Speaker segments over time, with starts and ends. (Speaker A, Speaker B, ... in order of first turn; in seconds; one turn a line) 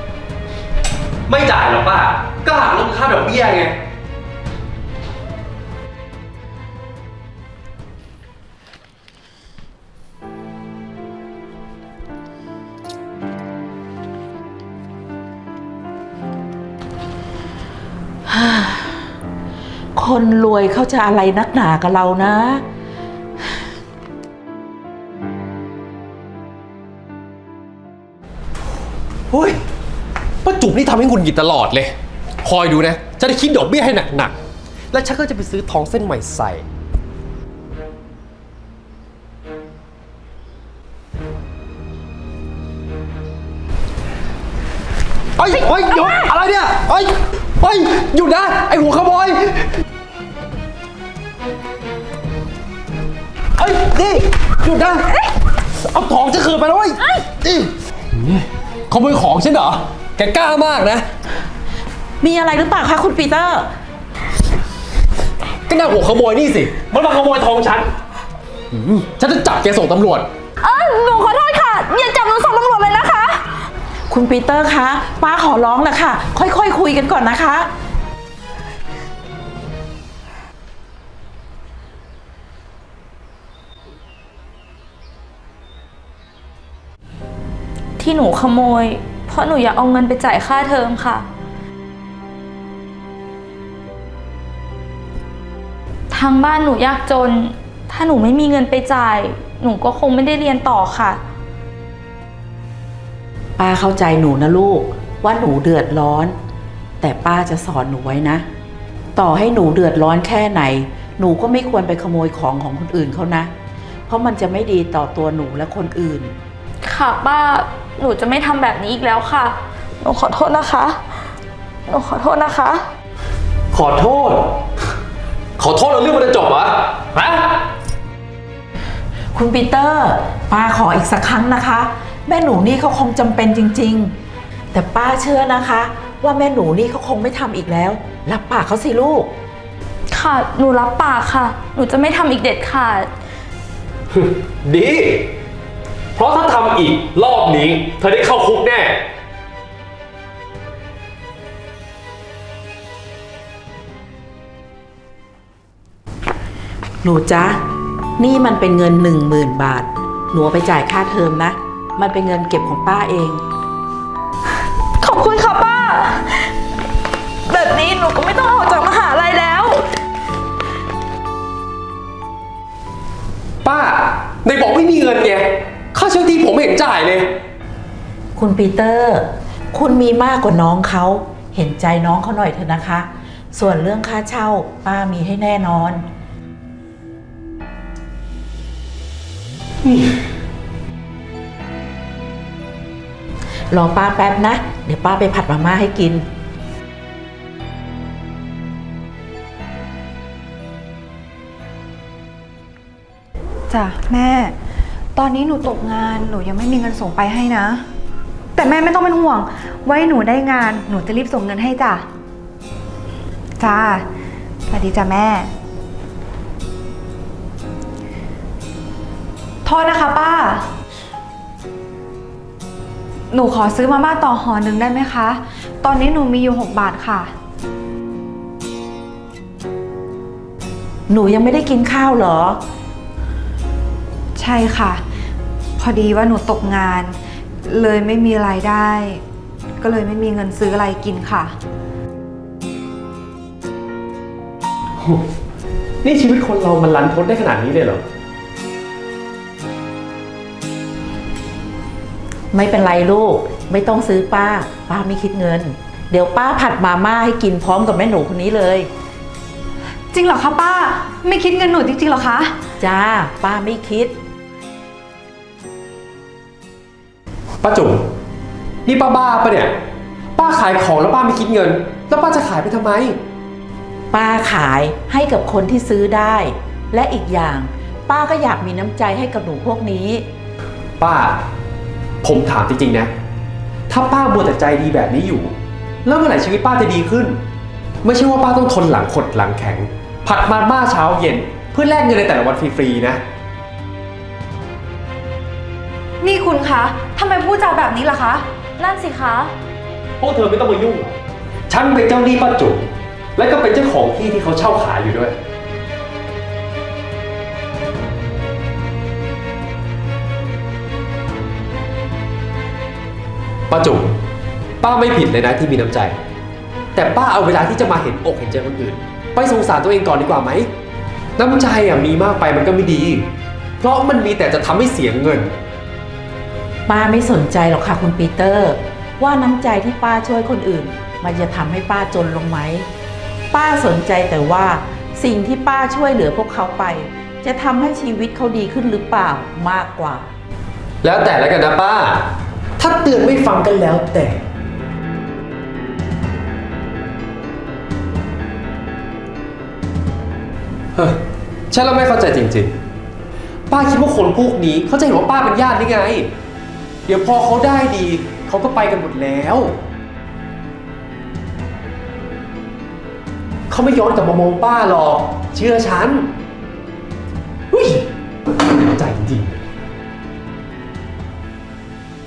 Speaker A: 1.3-3.8
Speaker B: 18.2-19.1
Speaker B: 20.0-22.6
Speaker A: 29.3-29.6
Speaker A: 30.4-34.4
Speaker A: 34.9-36.6
Speaker A: 45.4-49.7
Speaker A: 53.6-55.1
Speaker A: 55.8-61.1
Speaker B: 62.2-63.7
Speaker A: 65.7-67.9
Speaker A: 68.7-70.3
Speaker C: 70.6-73.4
Speaker B: 74.1-77.7
Speaker C: 88.0-91.2
Speaker C: 96.1-101.2
Speaker B: 103.6-106.4
Speaker B: 107.0-108.5
Speaker B: 109.2-113.5
Speaker B: 114.1-116.3
Speaker C: 116.8-121.0
Speaker C: 121.9-122.8
Speaker A: 123.7-124.6
Speaker A: 125.6-127.7
Speaker B: 129.3-134.1
Speaker B: 134.7-139.3
Speaker C: 140.1-143.1
Speaker A: 144.1-145.3
Speaker A: 146.2-149.0
Speaker B: 157.0-157.6
Speaker B: 158.2-163.4
Speaker C: 165.0-166.5
Speaker C: 167.5-169.8
Speaker A: 173.6-177.3
Speaker B: 178.3-186.1
Speaker A: 189.8-190.2
Speaker B: 193.7-196.2
Speaker D: 203.7-204.5
Speaker D: 205.2-207.8
Speaker D: 208.5-212.1
Speaker D: 213.6-214.1
Speaker D: 214.7-215.5
Speaker D: 219.7-220.7
Speaker D: 223.3-227.3
Speaker B: 231.1-232.6
Speaker D: 234.4-235.0
Speaker D: 235.8-239.2
Speaker D: 239.8-241.5
Speaker A: 245.0-245.2
Speaker A: 246.0-248.0
Speaker B: 252.5-258.9
Speaker D: 260.1-262.5
Speaker B: 262.8-264.2
Speaker A: 267.6-268.1
Speaker A: 268.9-269.7
Speaker A: 270.4-273.2
Speaker B: 274.1-280.3
Speaker A: 281.0-281.4
Speaker A: 282.2-283.1
Speaker A: 283.9-287.4
Speaker A: 288.0-293.2
Speaker D: 296.2-298.4
Speaker C: 298.8-299.5
Speaker A: 300.2-301.2
Speaker A: 301.7-305.3
Speaker A: 313.7-314.1
Speaker A: 314.8-316.2
Speaker A: 316.9-320.7
Speaker A: 321.4-325.5
Speaker B: 326.9-332.9
Speaker B: 333.5-340.3
Speaker A: 341.0-344.4
Speaker A: 351.0-352.8
Speaker A: 353.7-356.3
Speaker A: 357.1-359.8
Speaker A: 363.7-366.3
Speaker A: 367.7-368.1
Speaker A: 368.8-369.6